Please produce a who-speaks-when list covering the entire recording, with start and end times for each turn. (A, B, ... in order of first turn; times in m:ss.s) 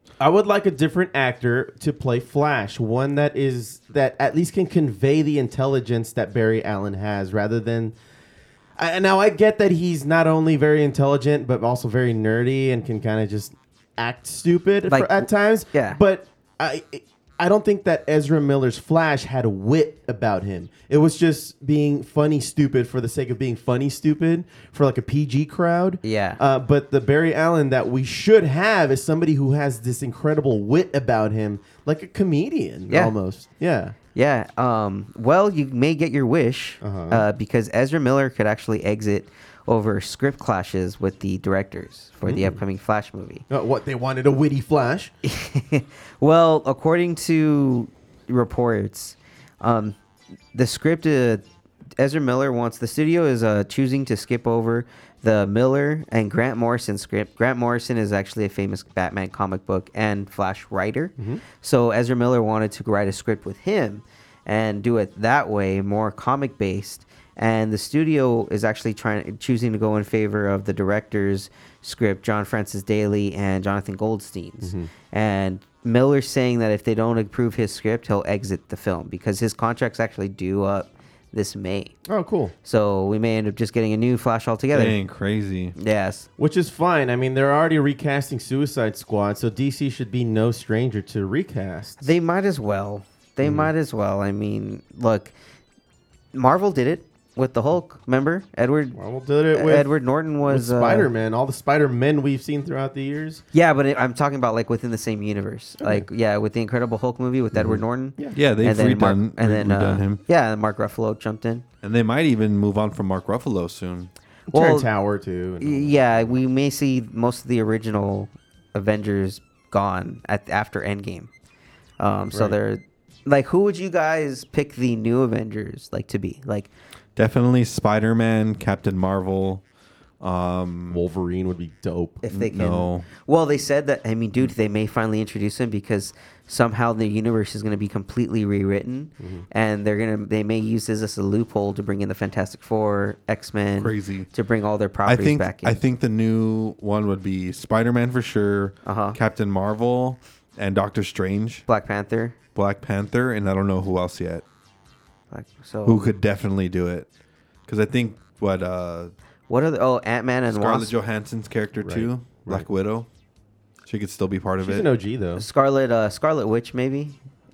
0:00.2-0:08.0 A
0:08.8-0:34.0 A
0:14.9-0:16.0 B
0:26.0-0:26.4 B
0:34.1-0:43.4 B
0:36.8-0:37.2 A
0:42.2-0:42.6 A
0:43.5-0:45.1 A
0:45.2-0:50.0 B
0:50.5-0:51.4 B
0:52.0-1:22.0 B
1:01.2-1:01.4 A
1:14.6-1:14.9 A
1:22.1-1:22.5 A
1:22.6-1:25.0 B
1:24.7-1:25.8 C
1:25.8-1:26.3 B
1:26.4-1:32.1 A
1:32.0-1:35.3 B
1:33.4-1:33.7 A
1:36.3-1:39.0 B
1:39.0-1:39.9 A
1:39.5-1:41.1 B
1:40.4-1:43.4 A
1:43.5-1:51.6 B
1:47.5-1:48.4 A
1:48.3-1:50.2 C
1:51.8-1:54.1 C
1:54.5-1:56.3 A
1:54.5-1:54.9 B
1:55.6-2:01.3 B
2:02.0-2:06.7 B
2:07.2-2:09.6 C
2:10.2-2:11.0 C
2:10.9-2:12.2 A
2:12.2-2:25.8 B
2:12.3-2:13.1 C
2:19.2-2:19.5 A
2:23.8-2:24.3 C
2:25.0-2:31.6 C
2:28.8-2:29.2 B
2:31.7-2:32.4 B
2:32.6-2:34.4 C
2:35.3-2:36.1 B
2:35.8-2:37.1 C
2:37.7-2:39.1 C
2:39.5-2:40.9 B
2:40.5-2:43.1 C
2:41.8-2:42.7 A
2:43.9-2:44.9 C
2:44.6-2:45.4 A
2:45.4-2:47.2 B